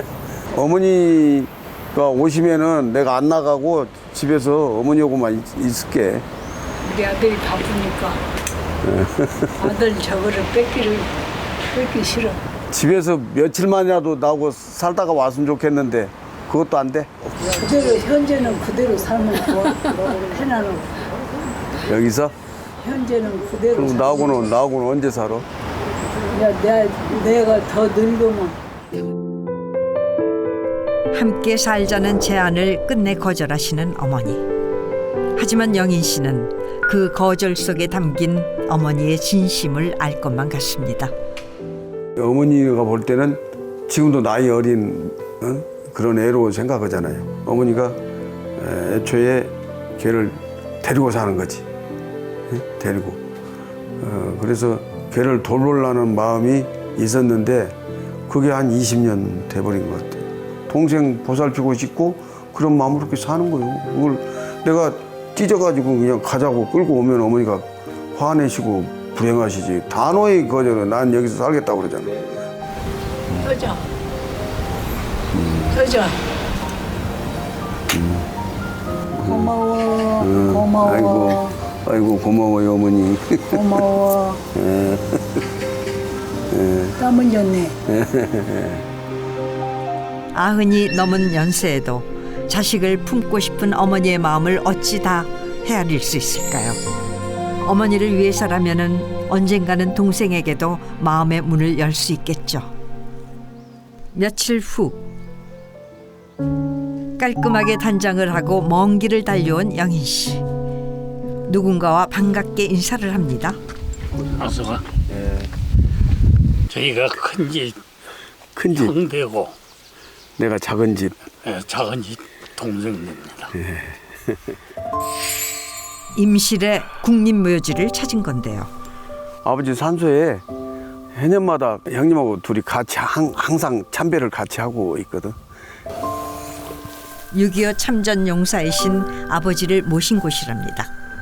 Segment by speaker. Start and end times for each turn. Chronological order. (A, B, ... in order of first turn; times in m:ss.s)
0:00.5-0:06.2 A
0:06.8-0:08.2 B
0:08.8-0:09.6 A
0:09.6-0:11.1 B
0:11.7-0:12.4 B
0:12.7-0:17.2 A
0:17.4-0:21.0 B
0:21.8-0:22.3 A
0:22.8-0:24.4 B
0:23.7-0:25.5 A
0:26.3-0:28.6 B
0:31.1-0:34.4 C
0:35.4-0:41.1 C
0:42.2-0:48.0 A
0:48.6-0:51.6 A
0:52.5-0:53.2 A
0:54.0-0:57.8 A
0:58.3-1:12.3 A
1:13.4-1:13.8 B
1:15.3-1:15.8 A
1:15.7-1:16.2 B
1:17.9-1:18.3 A
1:19.1-1:19.5 A
1:19.2-1:21.5 B
1:20.2-1:23.8 A
1:23.5-1:24.4 B
1:24.5-1:25.4 A
1:26.5-1:27.0 A
1:27.0-1:27.7 B
1:27.9-1:28.8 A
1:30.3-1:36.8 C
1:37.6-1:42.7 C
1:44.1-1:45.0 C
1:47.2-1:50.4 C
1:51.5-1:53.6 C
1:54.4-1:54.8 D
1:55.1-1:55.5 A
1:56.7-1:57.8 D
1:58.5-1:58.9 A
1:58.7-1:59.6 D
2:00.4-2:01.2 A
2:01.4-2:03.5 D
2:03.6-2:04.0 A
2:06.2-2:08.7 C
2:09.4-2:10.4 A
2:11.1-2:15.4 A
2:17.3-2:20.9 C